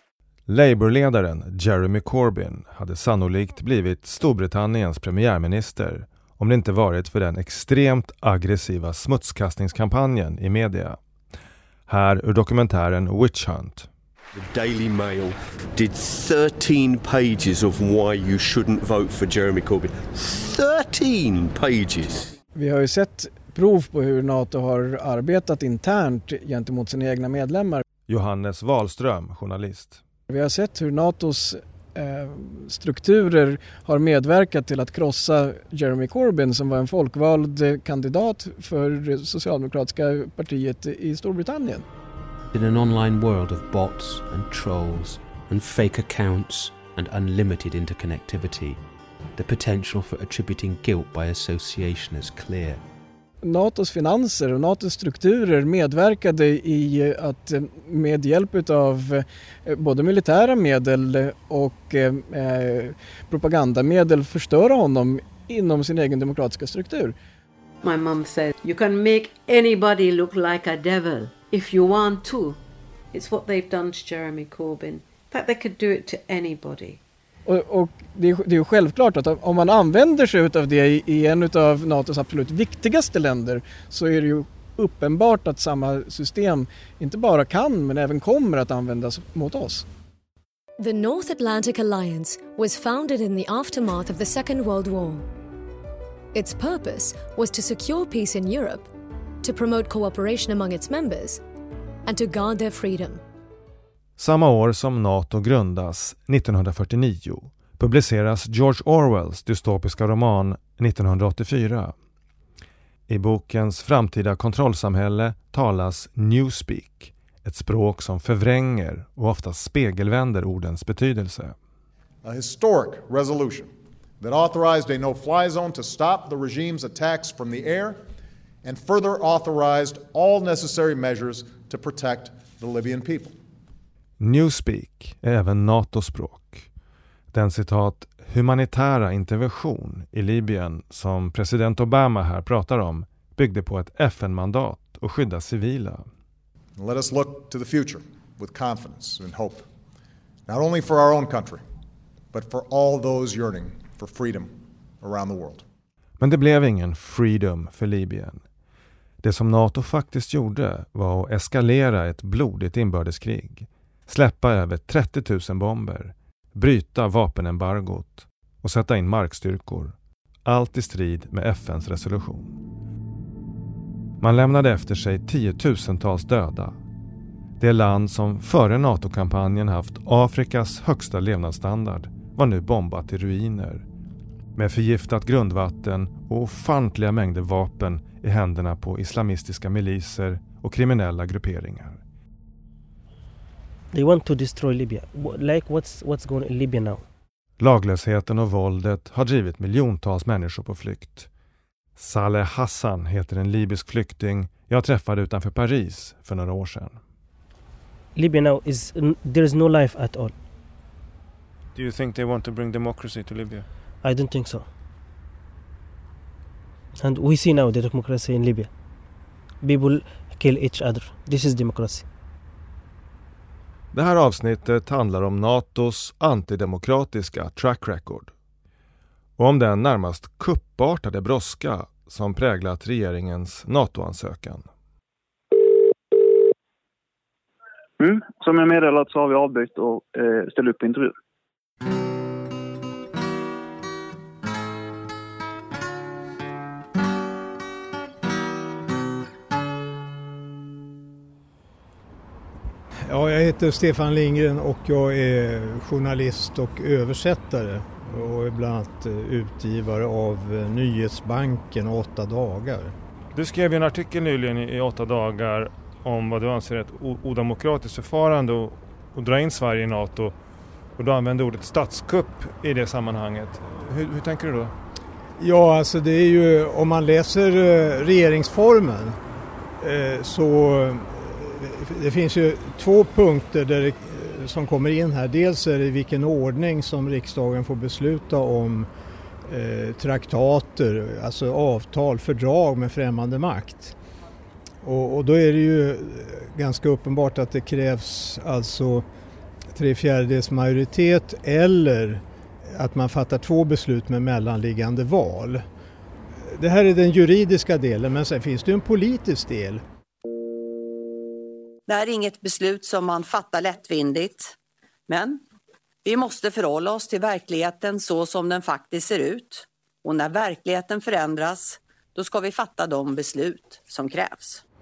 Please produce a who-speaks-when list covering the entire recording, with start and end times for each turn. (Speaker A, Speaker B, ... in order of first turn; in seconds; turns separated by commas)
Speaker A: 0.5-11.0, Speaker A: 11.9-13.9, Speaker B: 14.3-22.3, Speaker C: 22.6-27.8, Speaker A: 28.1-30.0, Speaker C: 30.3-41.9, Speaker D: 42.5-48.8, Speaker D: 49.4-52.8, Speaker C: 53.4-67.2, Speaker E: 67.8-72.6, Speaker E: 73.1-77.0, Speaker C: 77.5-89.9, Speaker F: 90.8-95.3, Speaker F: 96.3-98.9, Speaker F: 99.4-101.4, Speaker F: 102.0-103.2, Speaker A: 104.2-111.9, Speaker A: 113.1-121.5, Speaker G: 122.2-128.0, Speaker G: 128.6-133.3, Speaker A: 134.2-136.7, Speaker A: 137.3-146.1, Speaker G: 146.8-149.7, Speaker G: 150.5-151.6, Speaker G: 152.3-155.7, Speaker A: 156.2-158.4, Speaker A: 159.2-169.9, Speaker A: 170.5-172.6, Speaker A: 174.2-176.8, Speaker A: 177.6-183.8, Speaker A: 184.6-192.0, Speaker H: 193.9-197.0, Speaker A: 197.6-201.3, Speaker A: 202.0-207.0, Speaker H: 208.2-210.3, Speaker I: 211.8-213.7, Speaker H: 214.0-214.7, Speaker H: 217.0-218.7, Speaker H: 219.6-222.1, Speaker A: 223.9-228.3, Speaker A: 229.4-234.7, Speaker J: 238.3-240.8, Speaker K: 253.0-262.9, Speaker I: 263.4-270.4, Speaker I: 271.0-274.7, Speaker K: 275.4-279.2, Speaker K: 279.8-288.9, Speaker K: 289.5-293.9, Speaker K: 294.8-299.1, Speaker K: 299.7-305.6, Speaker K: 306.4-309.8, Speaker L: 311.9-314.6, Speaker L: 315.1-315.4, Speaker L: 316.1-324.6